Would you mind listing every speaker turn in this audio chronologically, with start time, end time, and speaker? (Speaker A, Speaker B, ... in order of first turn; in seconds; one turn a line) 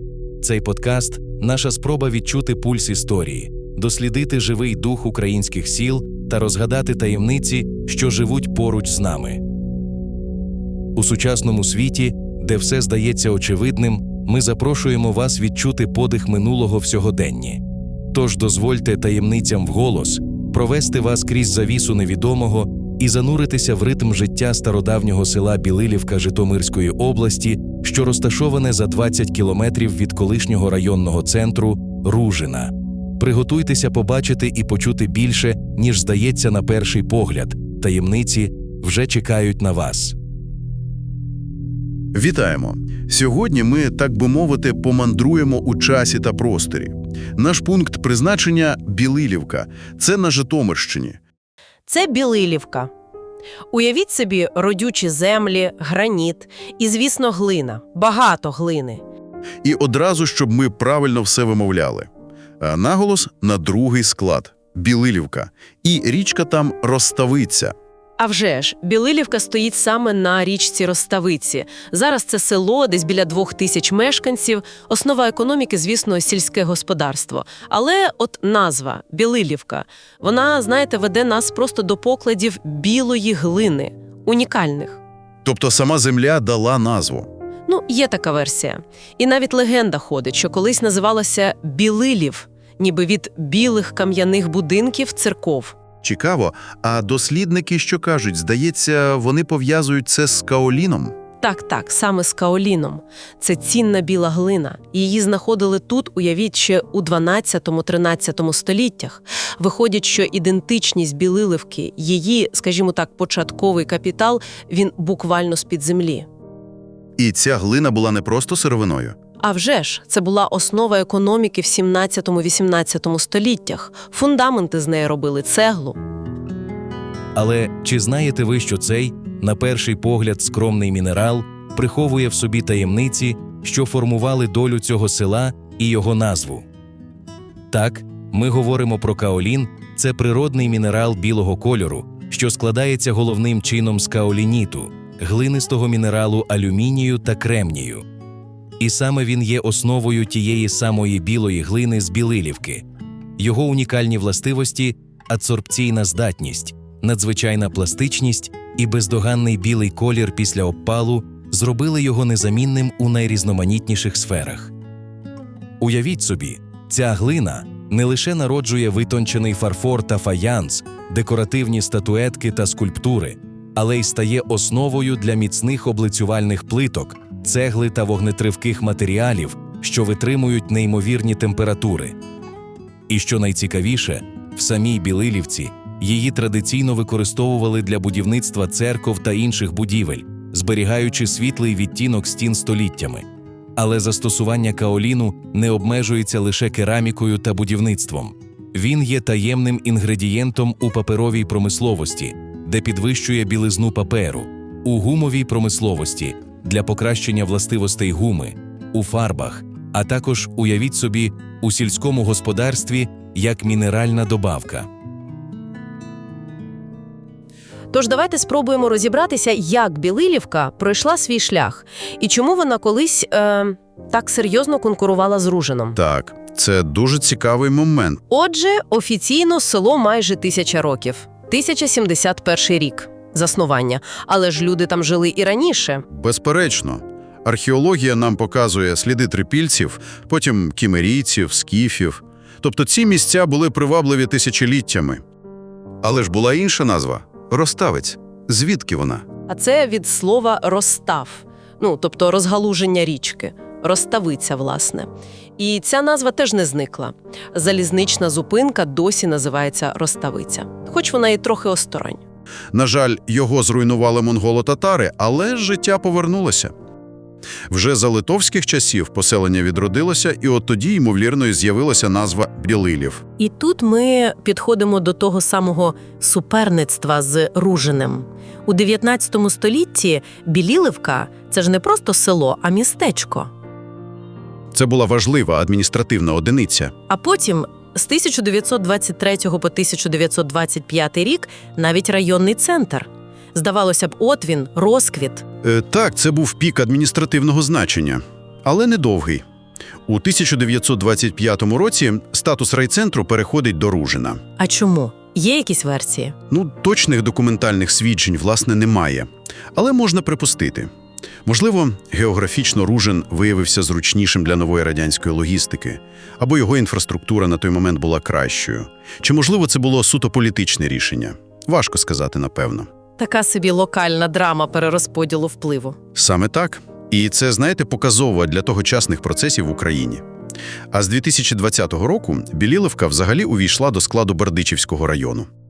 Speaker A: 0.4-9.4
Speaker A: 10.9-40.2
Speaker B: 42.1-51.2
Speaker C: 51.9-52.9
Speaker C: 53.7-59.0
Speaker B: 59.6-62.1
Speaker B: 62.6-67.7
Speaker C: 68.2-85.0
Speaker B: 85.4-87.3
Speaker C: 87.7-95.7
Speaker B: 96.0-101.1
Speaker C: 101.4-116.3
Speaker B: 117.2-119.2
Speaker C: 119.4-126.0
Speaker A: 127.3-136.7
Speaker A: 137.7-148.0
Speaker A: 148.8-152.8
Speaker A: 153.4-164.7
Speaker A: 165.8-182.2
Speaker A: 183.1-214.9
Speaker C: 217.9-226.0
Speaker B: 225.9-228.2
Speaker C: 228.3-236.0
Speaker B: 236.1-245.2
Speaker B: 246.0-249.2
Speaker C: 249.5-262.2
Speaker B: 262.7-266.7
Speaker B: 267.7-273.2
Speaker C: 273.4-283.5
Speaker B: 284.7-286.9
Speaker C: 287.1-295.4
Speaker B: 295.6-299.4
Speaker B: 300.1-304.4
Speaker C: 304.6-306.4
Speaker B: 306.5-310.9
Speaker B: 311.4-322.9
Speaker C: 323.2-326.0
Speaker B: 326.1-330.2
Speaker B: 330.9-335.5